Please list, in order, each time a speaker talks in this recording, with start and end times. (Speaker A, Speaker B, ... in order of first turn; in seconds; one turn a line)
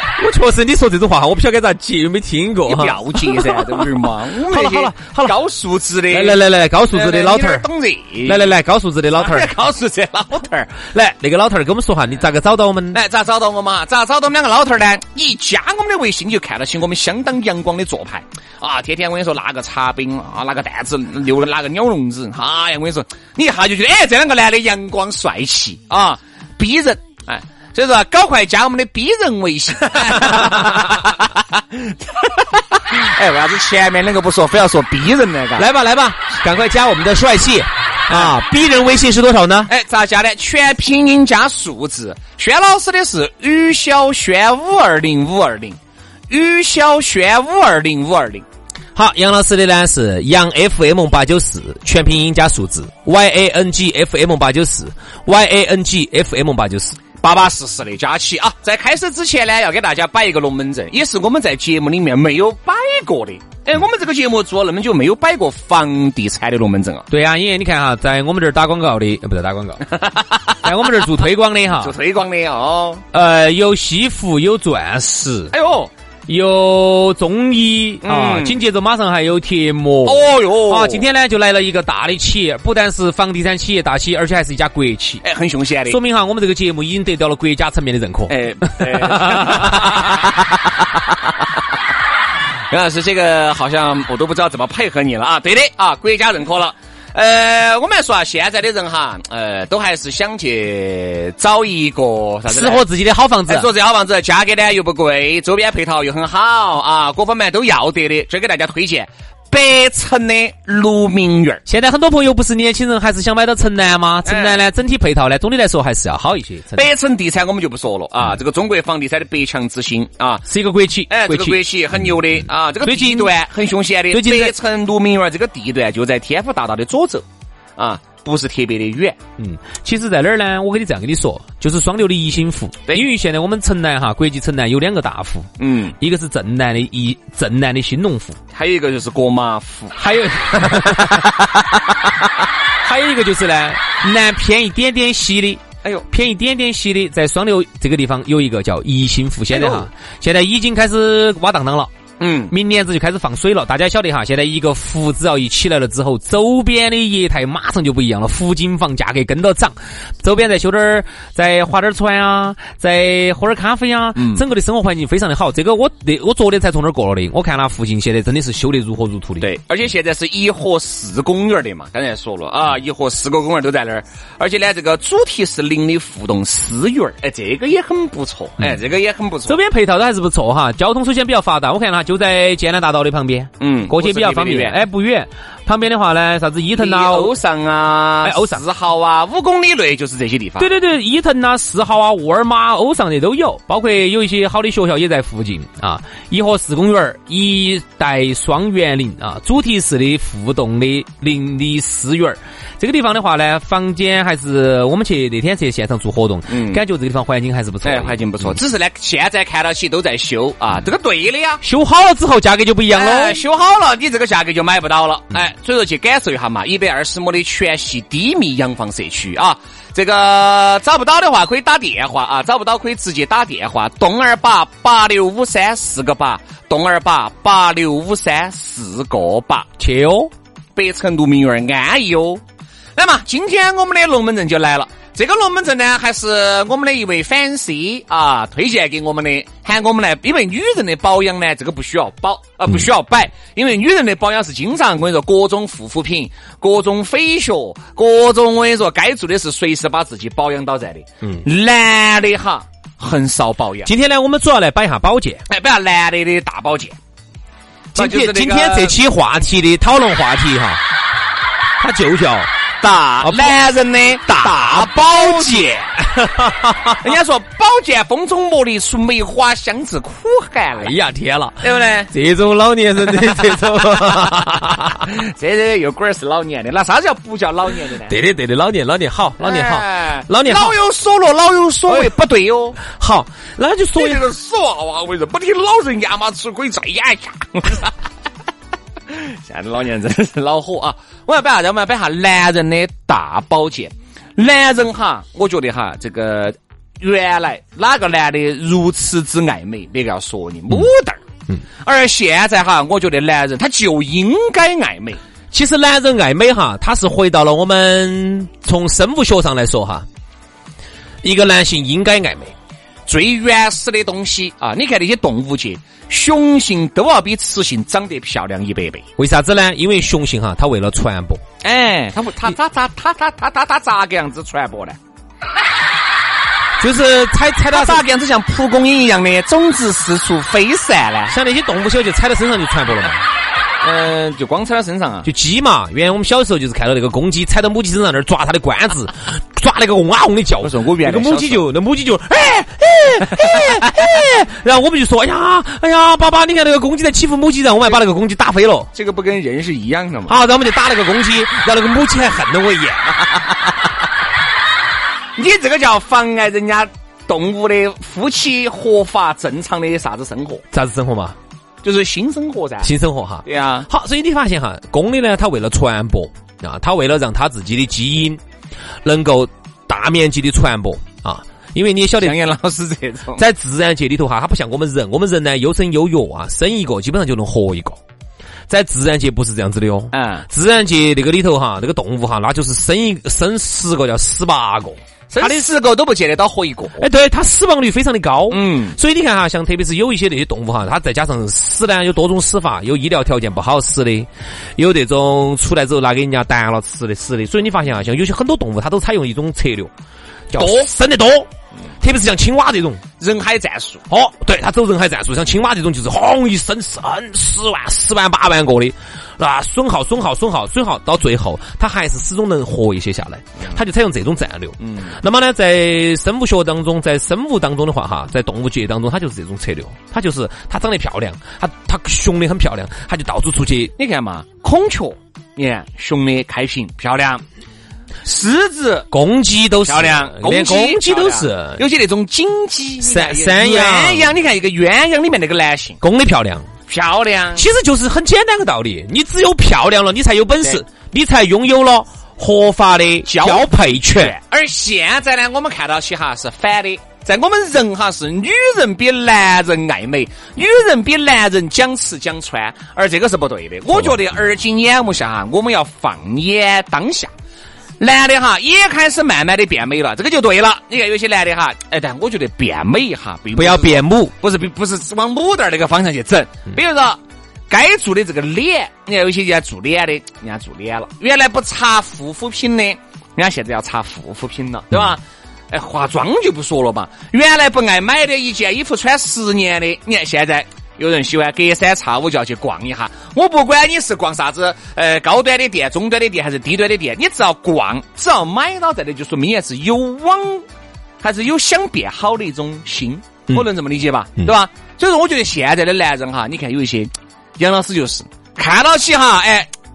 Speaker A: 0.2-5.4
Speaker B: 2.6-6.4
Speaker A: 6.1-7.7
Speaker B: 6.9-8.4
Speaker A: 8.2-9.5
Speaker B: 9.2-10.8
Speaker A: 10.9-13.0
Speaker B: 12.9-35.7
Speaker A: 30.2-30.6
Speaker A: 35.5-39.7
Speaker B: 39.7-45.8
Speaker B: 46.3-48.5
Speaker A: 48.9-57.0
Speaker B: 57.2-67.1
Speaker A: 67.1-69.9
Speaker B: 69.8-70.6
Speaker A: 70.6-71.9
Speaker B: 71.8-73.0
Speaker A: 73.1-75.5
Speaker B: 75.5-75.9
Speaker A: 76.3-85.2
Speaker B: 78.0-78.6
Speaker B: 80.0-81.0
Speaker B: 85.2-86.0
Speaker A: 85.8-90.3
Speaker B: 88.3-90.4
Speaker B: 92.7-102.8
Speaker A: 102.5-103.7
Speaker B: 103.5-111.6
Speaker A: 111.7-116.9
Speaker B: 114.2-114.6
Speaker B: 116.7-120.5
Speaker A: 120.5-121.6
Speaker B: 121.1-127.2
Speaker A: 122.8-123.3
Speaker A: 124.1-124.5
Speaker B: 127.8-129.2
Speaker A: 129.4-138.4
Speaker B: 135.6-135.9
Speaker B: 138.5-140.0
Speaker A: 139.9-141.4
Speaker B: 140.8-141.3
Speaker A: 142.8-151.9
Speaker B: 149.5-149.9
Speaker B: 152.2-152.5
Speaker A: 152.5-169.5
Speaker B: 164.2-164.4
Speaker B: 169.4-179.6
Speaker A: 179.4-187.3
Speaker B: 183.6-184.8
Speaker B: 186.7-190.7
Speaker A: 188.2-188.6
Speaker A: 190.6-208.6
Speaker B: 206.5-206.8
Speaker B: 207.8-211.6
Speaker A: 211.6-213.4
Speaker B: 212.9-229.7
Speaker A: 229.8-230.3
Speaker B: 230.8-232.4
Speaker B: 232.9-253.9
Speaker A: 253.8-255.4
Speaker B: 255.5-256.9
Speaker A: 257.9-260.8
Speaker B: 257.9-258.9
Speaker A: 261.8-262.5
Speaker B: 262.8-265.9
Speaker A: 263.2-263.6
Speaker A: 264.2-267.0
Speaker B: 267.0-270.9
Speaker A: 270.8-275.1
Speaker B: 271.6-272.1
Speaker B: 274.1-278.1
Speaker A: 278.1-280.8
Speaker B: 279.4-282.8
Speaker A: 281.9-282.1
Speaker A: 282.8-284.3
Speaker B: 283.9-287.9
Speaker B: 289.1-301.2
Speaker B: 301.8-305.2
Speaker A: 305.5-310.1
Speaker A: 311.2-312.5
Speaker B: 313.1-319.0
Speaker A: 319.2-321.4
Speaker B: 321.6-325.0
Speaker A: 326.8-328.0
Speaker B: 327.7-331.3
Speaker A: 331.3-333.2
Speaker B: 333.8-335.3
Speaker A: 335.2-348.9
Speaker B: 340.6-341.6
Speaker B: 348.9-350.4
Speaker A: 350.3-353.2
Speaker B: 355.4-360.6
Speaker A: 360.7-361.4
Speaker B: 361.8-362.9
Speaker A: 362.8-368.4
Speaker B: 363.4-363.9
Speaker A: 369.0-372.4
Speaker B: 372.2-373.4
Speaker A: 373.3-378.0
Speaker A: 378.7-385.7
Speaker B: 380.1-380.4
Speaker B: 385.3-387.1
Speaker A: 387.0-399.9
Speaker B: 388.5-389.0
Speaker A: 400.5-401.5
Speaker B: 400.5-400.9
Speaker A: 402.0-403.0
Speaker B: 403.2-404.0
Speaker A: 404.1-423.9
Speaker B: 414.8-415.1
Speaker B: 424.0-427.4
Speaker B: 428.2-429.1
Speaker A: 429.1-431.8
Speaker B: 429.8-436.0
Speaker A: 433.0-434.3
Speaker A: 436.0-436.7
Speaker B: 436.9-437.7
Speaker A: 437.5-444.4
Speaker B: 443.2-457.3
Speaker B: 458.0-490.6
Speaker A: 463.5-464.3
Speaker B: 491.2-499.7